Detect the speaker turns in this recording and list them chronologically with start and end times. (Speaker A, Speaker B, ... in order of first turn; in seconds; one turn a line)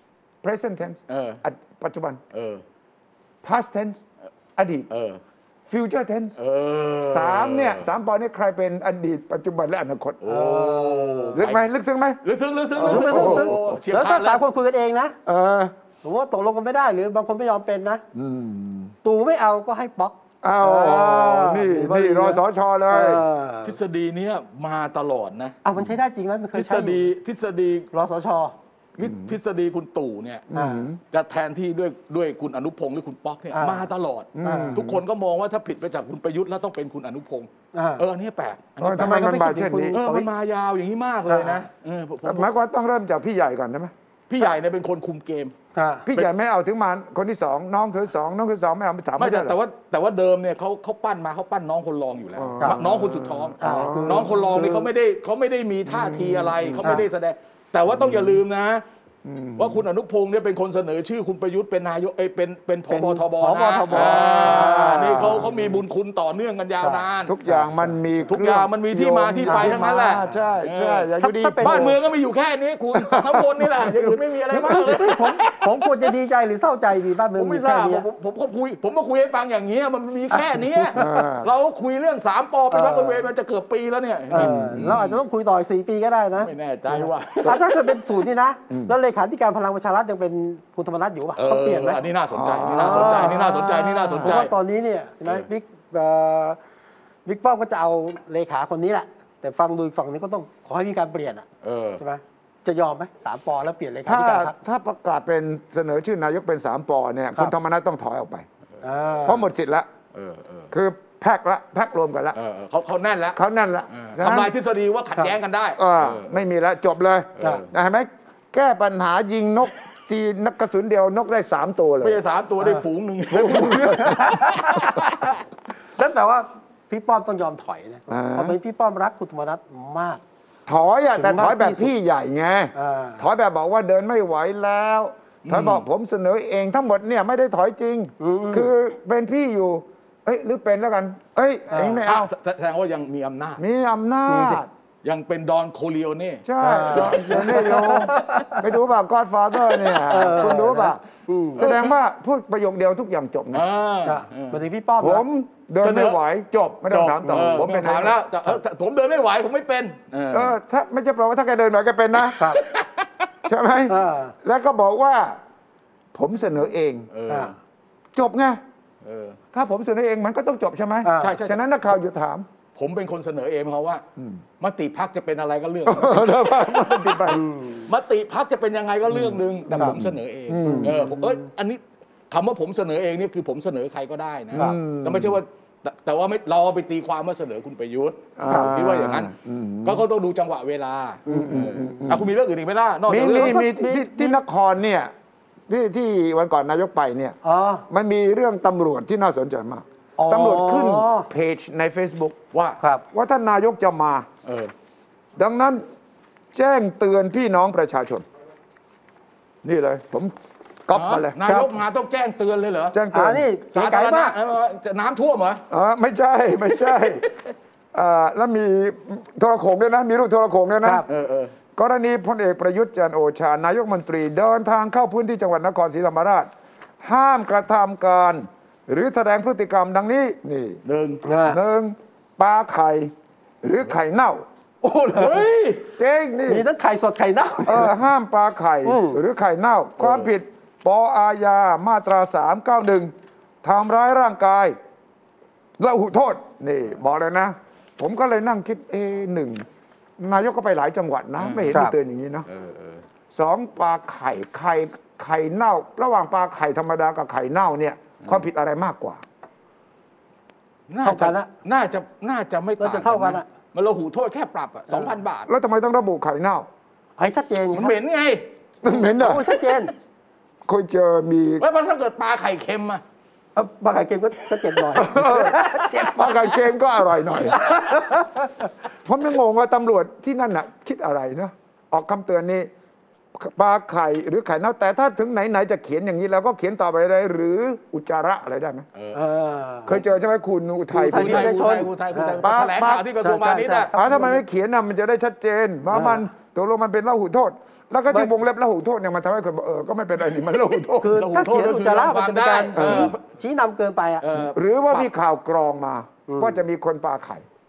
Speaker A: 0.4-2.2
Speaker B: 1.1-1.4
Speaker B: 2.3-2.6
Speaker A: 3.4-4.0
Speaker A: 4.6-4.9
Speaker B: 4.9-5.2
Speaker A: 5.7-6.4
Speaker B: 6.4-7.9
Speaker A: 7.0-10.2
Speaker B: 10.2-11.6
Speaker C: 10.2-11.4
Speaker A: 11.3-12.2
Speaker B: 12.2-14.4
Speaker C: 12.8-15.2
Speaker A: 12.8-13.8
Speaker A: 15.2-15.7
Speaker C: 16.0-18.0
Speaker A: 18.1-18.9
Speaker C: 19.0-23.8
Speaker A: 20.4-23.2
Speaker B: 23.6-25.6
Speaker C: 25.6-27.1
Speaker B: 26.5-27.9
Speaker C: 27.9-28.5
Speaker B: 29.0-30.5
Speaker A: 29.0-29.3
Speaker A: 30.5-31.0
Speaker C: 30.5-30.9
Speaker B: 31.1-39.4
Speaker C: 33.5-33.9
Speaker A: 34.4-35.0
Speaker C: 34.4-34.8
Speaker C: 37.7-38.0
Speaker A: 38.8-40.0
Speaker C: 38.9-40.3
Speaker B: 39.9-42.5
Speaker C: 41.3-41.6
Speaker A: 42.2-43.9
Speaker B: 44.3-45.5
Speaker C: 45.7-46.1
Speaker A: 46.1-49.6
Speaker B: 49.2-58.8
Speaker A: 52.4-54.7
Speaker C: 53.6-54.9
Speaker A: 55.9-57.0
Speaker A: 57.9-58.4
Speaker A: 59.2-59.8
Speaker B: 59.6-67.3
Speaker C: 62.9-65.5
Speaker A: 63.9-65.8
Speaker C: 66.8-68.3
Speaker A: 67.2-72.0
Speaker B: 68.3-71.1
Speaker C: 69.4-70.4
Speaker C: 71.2-72.0
Speaker B: 71.6-75.7
Speaker A: 72.9-75.1
Speaker C: 74.5-78.0
Speaker B: 77.4-85.2
Speaker C: 80.3-81.2
Speaker A: 80.9-81.5
Speaker C: 82.7-83.2
Speaker C: 84.3-92.1
Speaker A: 84.3-85.0
Speaker B: 86.4-87.9
Speaker A: 88.7-88.9
Speaker B: 91.4-94.5
Speaker A: 92.3-94.5
Speaker C: 92.6-93.7
Speaker C: 94.2-96.6
Speaker C: 97.2-101.4
Speaker B: 101.6-102.0
Speaker C: 102.0-104.5
Speaker A: 104.0-108.5
Speaker C: 108.8-109.5
Speaker A: 109.2-109.9
Speaker B: 110.1-110.7
Speaker A: 110.7-112.4
Speaker B: 112.3-113.4
Speaker A: 113.3-114.5
Speaker B: 113.9-116.4
Speaker A: 115.8-122.2
Speaker B: 117.4-117.7
Speaker B: 122.0-125.3
Speaker A: 123.3-124.6
Speaker C: 124.0-125.2
Speaker C: 126.0-130.2
Speaker A: 128.1-128.6
Speaker A: 130.7-142.3
Speaker C: 131.1-131.9
Speaker C: 132.7-133.2
Speaker B: 135.4-135.9
Speaker C: 138.2-138.7
Speaker C: 141.7-142.1
Speaker B: 142.1-143.6
Speaker A: 143.6-144.7
Speaker C: 144.3-144.6
Speaker B: 145.0-147.9
Speaker A: 146.4-151.0
Speaker C: 146.6-148.6
Speaker B: 149.9-150.3
Speaker C: 150.1-151.6
Speaker A: 151.6-153.6
Speaker B: 151.6-151.9
Speaker B: 153.5-154.6
Speaker C: 154.1-155.2
Speaker A: 155.0-158.2
Speaker B: 155.8-156.2
Speaker B: 156.9-160.6
Speaker C: 157.2-157.6
Speaker A: 160.3-162.5
Speaker B: 162.3-162.8
Speaker C: 162.4-162.6
Speaker A: 163.4-165.4
Speaker C: 163.9-164.3
Speaker A: 166.1-167.1
Speaker B: 167.1-167.6
Speaker A: 168.1-168.6
Speaker B: 169.0-169.4
Speaker A: 169.5-172.5
Speaker C: 171.0-171.4
Speaker B: 171.2-171.6
Speaker B: 172.8-174.0
Speaker B: 174.6-177.2
Speaker A: 175.9-177.4
Speaker C: 177.3-177.9
Speaker B: 177.9-189.3
Speaker A: 179.2-181.1
Speaker C: 180.6-181.1
Speaker A: 184.5-185.4
Speaker A: 188.4-190.1
Speaker B: 189.8-193.6
Speaker A: 191.3-192.3
Speaker C: 191.3-192.1
Speaker A: 193.1-195.1
Speaker C: 193.2-194.4
Speaker A: 195.7-197.3
Speaker C: 197.4-197.8
Speaker A: 197.9-202.4
Speaker C: 200.2-201.3
Speaker B: 202.5-202.8
Speaker A: 203.1-204.3
Speaker B: 204.4-204.7
Speaker A: 205.4-205.9
Speaker A: 206.5-208.2
Speaker A: 209.6-210.3
Speaker A: 210.9-211.7
Speaker B: 210.9-213.0
Speaker A: 212.9-213.4
Speaker C: 213.1-214.3
Speaker B: 213.7-215.6
Speaker A: 215.7-217.2
Speaker A: 217.9-221.0
Speaker B: 221.1-221.5
Speaker A: 221.8-230.8
Speaker B: 230.8-231.2
Speaker C: 231.2-231.6
Speaker A: 231.4-233.1
Speaker A: 233.6-234.5
Speaker C: 234.8-235.5
Speaker B: 235.1-235.8
Speaker A: 236.0-236.7
Speaker C: 236.5-237.9
Speaker A: 237.6-244.8
Speaker C: 238.8-239.2
Speaker B: 240.0-240.3
Speaker A: 245.8-249.7
Speaker A: 250.2-252.5
Speaker B: 251.4-251.8
Speaker B: 252.5-253.0
Speaker A: 253.3-259.2
Speaker B: 260.9-265.5
Speaker C: 261.0-261.5
Speaker C: 262.8-263.4
Speaker A: 265.5-266.7
Speaker C: 267.2-268.0
Speaker B: 267.7-268.5
Speaker A: 268.8-269.5
Speaker C: 268.9-269.9
Speaker A: 270.6-271.6
Speaker B: 271.6-273.0
Speaker C: 273.5-276.3
Speaker A: 274.9-277.7
Speaker C: 277.6-278.5
Speaker A: 279.0-282.7
Speaker A: 283.4-288.9
Speaker B: 288.9-289.2
Speaker C: 289.1-290.0
Speaker A: 289.9-291.6
Speaker C: 290.9-292.5
Speaker B: 291.1-293.9
Speaker A: 292.4-293.0
Speaker C: 293.2-294.4
Speaker A: 294.0-301.4
Speaker C: 295.9-296.2
Speaker C: 301.0-304.2
Speaker B: 301.1-303.2
Speaker A: 302.8-303.1
Speaker B: 304.2-305.1
Speaker A: 304.5-307.4
Speaker C: 306.3-306.6